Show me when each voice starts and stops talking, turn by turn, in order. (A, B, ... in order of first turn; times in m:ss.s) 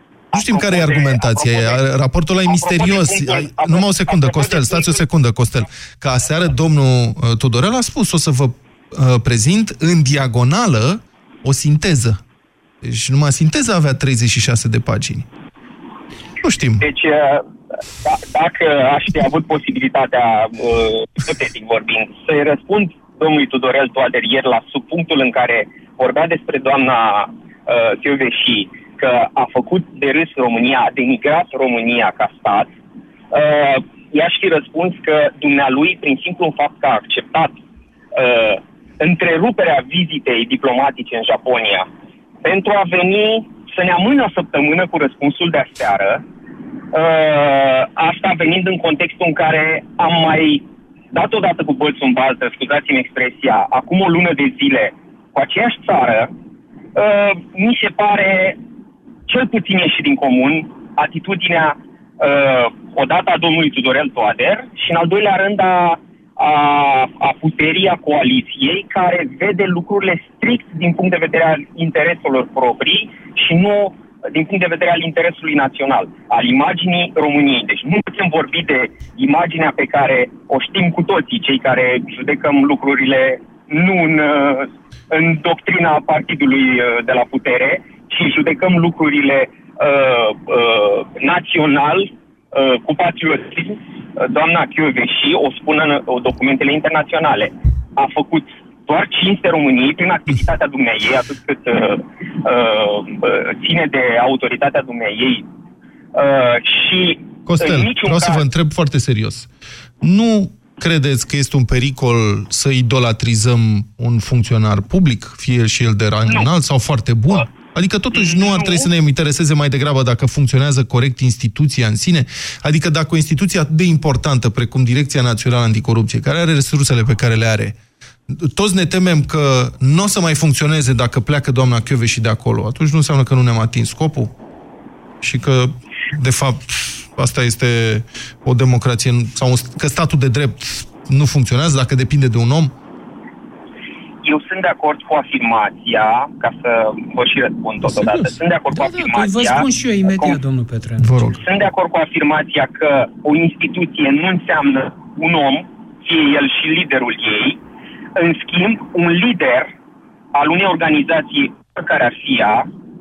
0:00.3-0:01.8 A
0:00.3-0:12.2 B
0:02.4-0:05.0 A
0:12.8-0:15.3 B
0:16.4-0:16.8 B
0:16.8-0:17.4 A
0:18.0-0:32.7 A
0:33.3-0:37.6 A
0:38.1-0:41.9 A
0:42.4-0:46.2 A
0:46.9-0:56.3 A
0:56.9-0:58.6 A
0:59.3-1:45.4 A
1:46.1-1:48.4 A
1:47.4-1:49.5 B
1:50.0-2:07.8 B
1:58.1-1:58.9 A
2:08.3-2:14.3 B
2:15.2-2:22.7 B
2:24.2-2:30.4 A
2:27.8-2:28.4 B
2:28.7-2:31.3 C
2:31.0-2:31.4 B
2:31.3-2:37.6 A
2:38.2-2:39.7 A
2:40.3-2:42.7 A